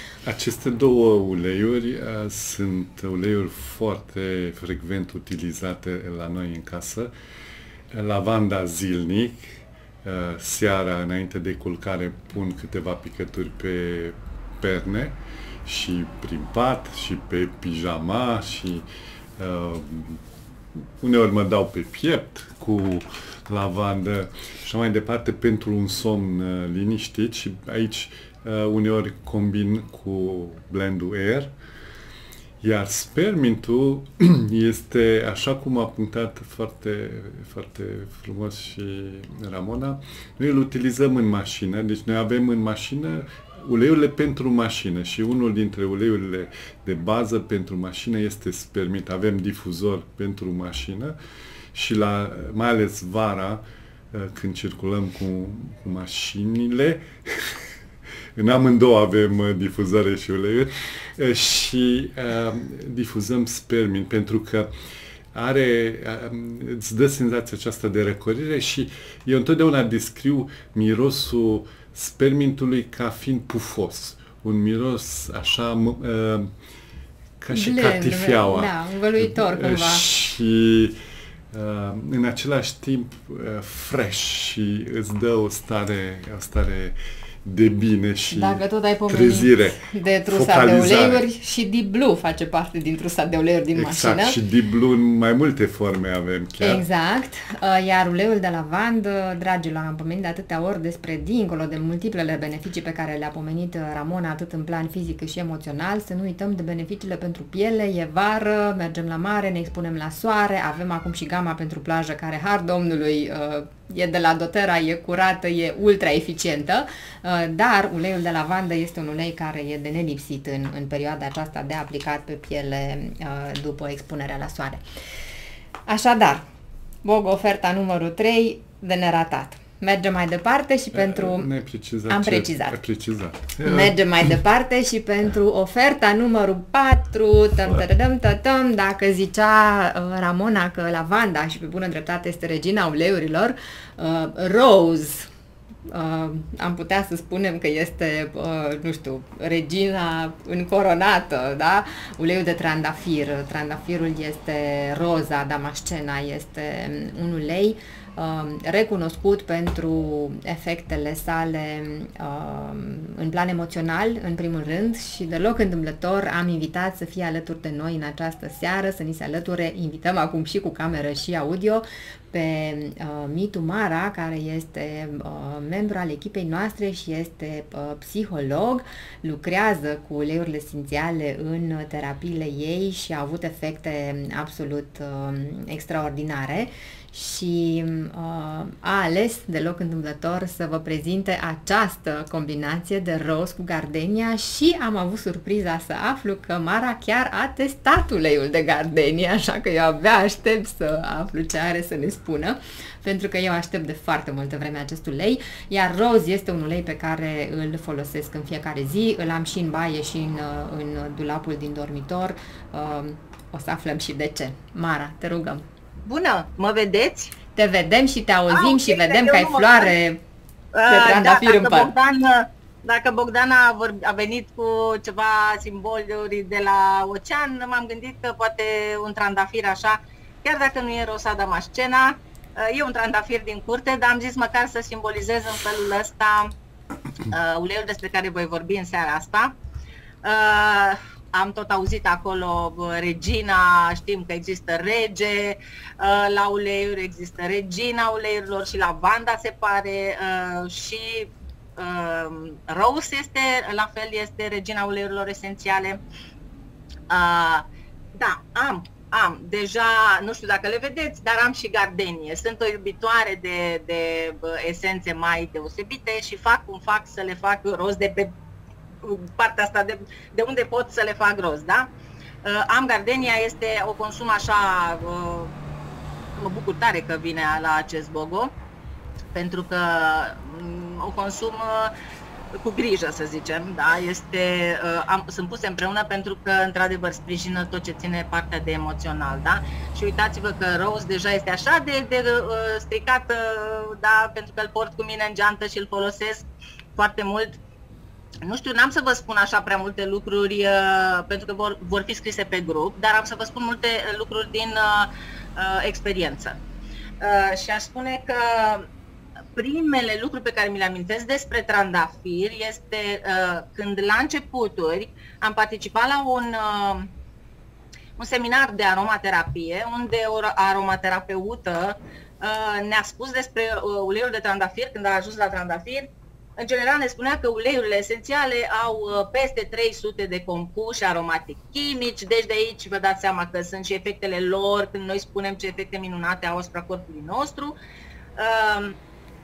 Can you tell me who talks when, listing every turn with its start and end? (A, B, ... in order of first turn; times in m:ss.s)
0:00.2-0:07.1 A
0:07.9-0:18.9 A
0:19.4-0:20.2 A
0:21.0-0:31.5 A
0:32.6-0:51.2 A
0:51.7-0:57.6 A
0:58.4-1:04.7 A
1:05.3-1:16.5 A
1:17.4-1:21.0 A
1:17.5-1:20.0 B
1:21.5-1:31.2 A
1:28.3-1:34.4 B
1:33.8-1:36.8 A
1:36.6-2:04.8 B
2:05.9-2:06.4 B
2:07.0-2:11.5 B
2:10.9-2:14.3 A
2:12.1-2:12.8 B
2:13.6-2:25.3 B
2:25.9-3:35.6 B
3:36.0-3:37.4 C
3:37.6-3:40.2 B
3:38.5-3:39.9 C
3:40.7-3:56.5 C
3:40.9-3:41.9 B
3:57.3-3:59.5 C
4:00.2-4:16.0 C
4:17.1-4:28.3 C
4:29.0-4:31.9 C
4:32.4-4:35.5 C
4:36.4-4:38.5 C
4:39.3-4:41.9 C
4:42.6-4:57.6 C
4:58.4-5:06.6 C
5:07.2-5:08.9 C
5:09.6-5:17.1 C
5:18.2-5:37.8 C
5:38.4-5:39.0 C